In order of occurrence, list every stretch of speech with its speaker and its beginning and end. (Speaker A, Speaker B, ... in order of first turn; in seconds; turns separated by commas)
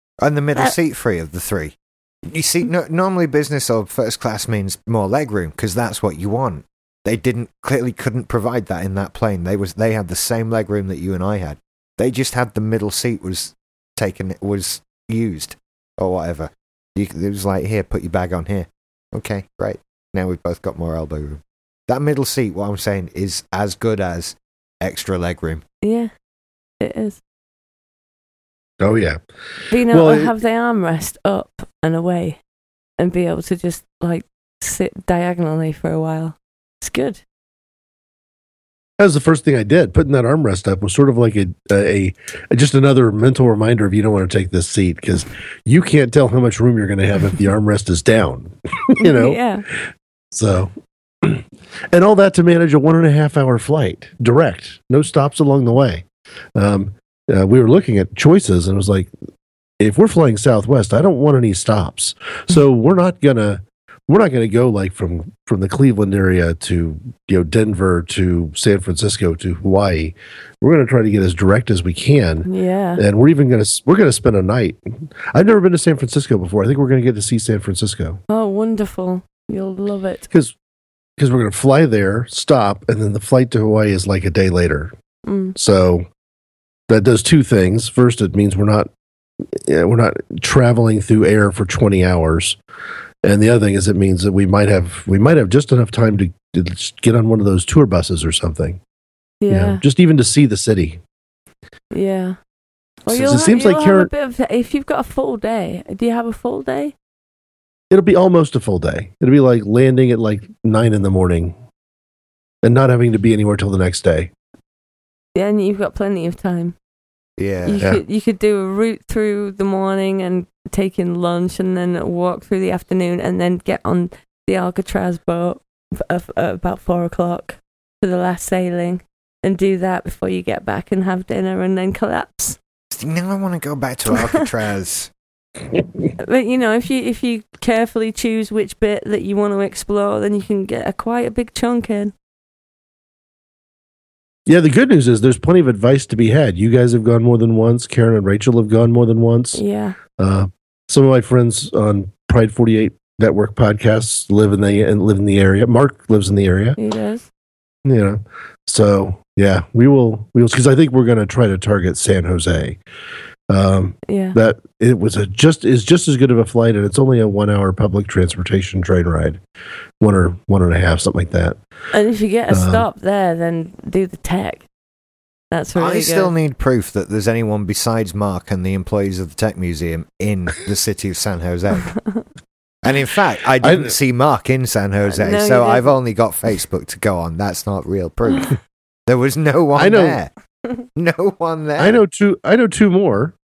Speaker A: 0.2-25.6, Speaker B: 25.8-26.1, Speaker B: 26.8-27.2, Speaker C: 28.8-29.2, Speaker B: 29.7-32.4, Speaker C: 29.9-30.3, Speaker B: 33.0-37.2, Speaker C: 39.0-49.4, Speaker B: 49.0-49.6, Speaker C: 50.3-50.7, Speaker C: 51.2-56.0, Speaker C: 56.6-59.1, Speaker C: 59.8-74.8, Speaker B: 72.5-73.0, Speaker C: 75.3-78.2, Speaker B: 78.3-80.3, Speaker C: 81.2-84.9, Speaker B: 85.3-85.5, Speaker C: 85.6-86.1, Speaker C: 86.9-88.9, Speaker C: 89.5-92.6, Speaker C: 93.2-98.8, Speaker B: 99.4-99.8, Speaker C: 99.5-101.0, Speaker B: 101.9-102.4, Speaker B: 103.1-106.9, Speaker C: 103.1-104.1, Speaker C: 107.9-111.5, Speaker C: 112.6-114.3, Speaker B: 115.3-116.8, Speaker A: 117.4-117.8, Speaker B: 117.6-132.6, Speaker A: 132.9-135.1, Speaker B: 134.1-134.4, Speaker B: 136.2-142.1, Speaker C: 144.5-149.6, Speaker B: 149.6-150.0, Speaker C: 150.2-156.8, Speaker B: 156.8-157.3, Speaker C: 157.8-162.8, Speaker C: 163.5-169.4, Speaker B: 164.1-164.4, Speaker C: 170.0-171.6, Speaker B: 171.9-174.7, Speaker C: 172.5-172.9, Speaker B: 175.5-176.3, Speaker A: 175.8-181.9, Speaker B: 182.0-182.2, Speaker A: 182.8-188.6, Speaker C: 183.6-184.0, Speaker B: 185.1-186.0, Speaker B: 188.3-188.6, Speaker A: 189.1-190.3, Speaker C: 189.8-190.2, Speaker A: 190.9-192.0, Speaker C: 191.8-193.4